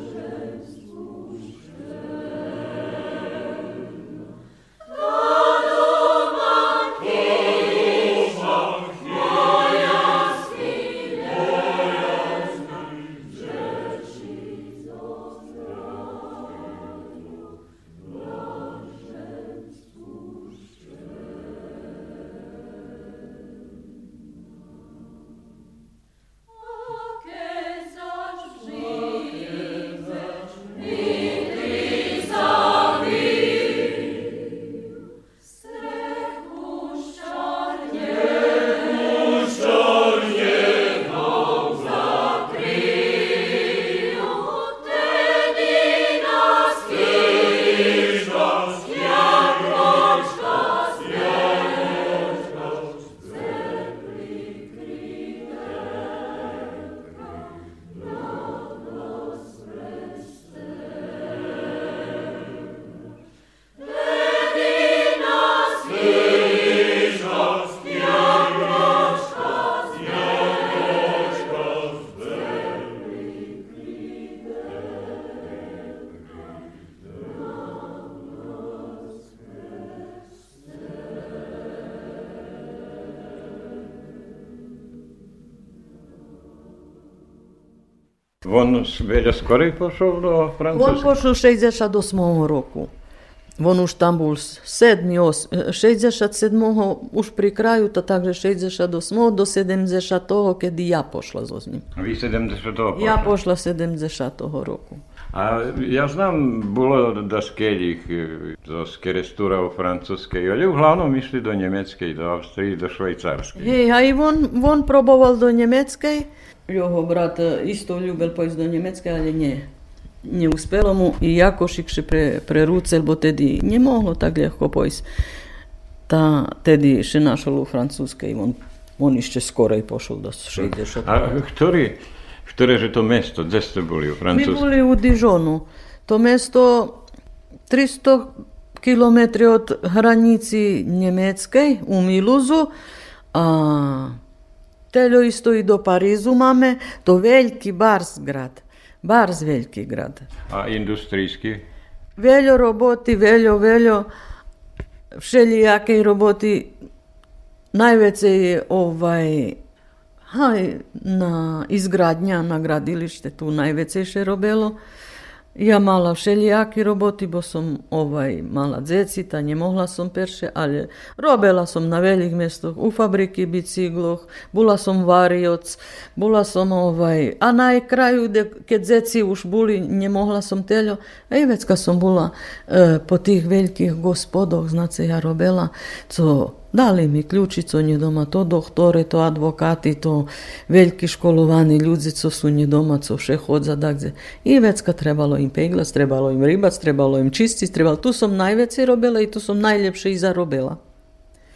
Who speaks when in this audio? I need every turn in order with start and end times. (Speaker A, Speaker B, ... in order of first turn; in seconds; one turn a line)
Speaker A: 88.4-91.1
Speaker B: 90.7-92.9
Speaker B: 93.6-101.8
Speaker A: 101.9-103.3
Speaker B: 102.9-105.0
Speaker A: 105.3-113.8
Speaker B: 113.6-119.7
Speaker B: 120.2-125.0
Speaker B: 126.1-131.2
Speaker A: 130.6-134.7
Speaker B: 134.3-137.0
Speaker B: 137.7-142.7
Speaker B: 143.3-144.2
Speaker B: 144.9-150.3
Speaker A: 150.5-151.6
Speaker B: 152.2-154.1
Speaker B: 155.2-156.7
Speaker B: 157.7-159.6
Speaker B: 160.3-164.8
Speaker B: 165.5-200.8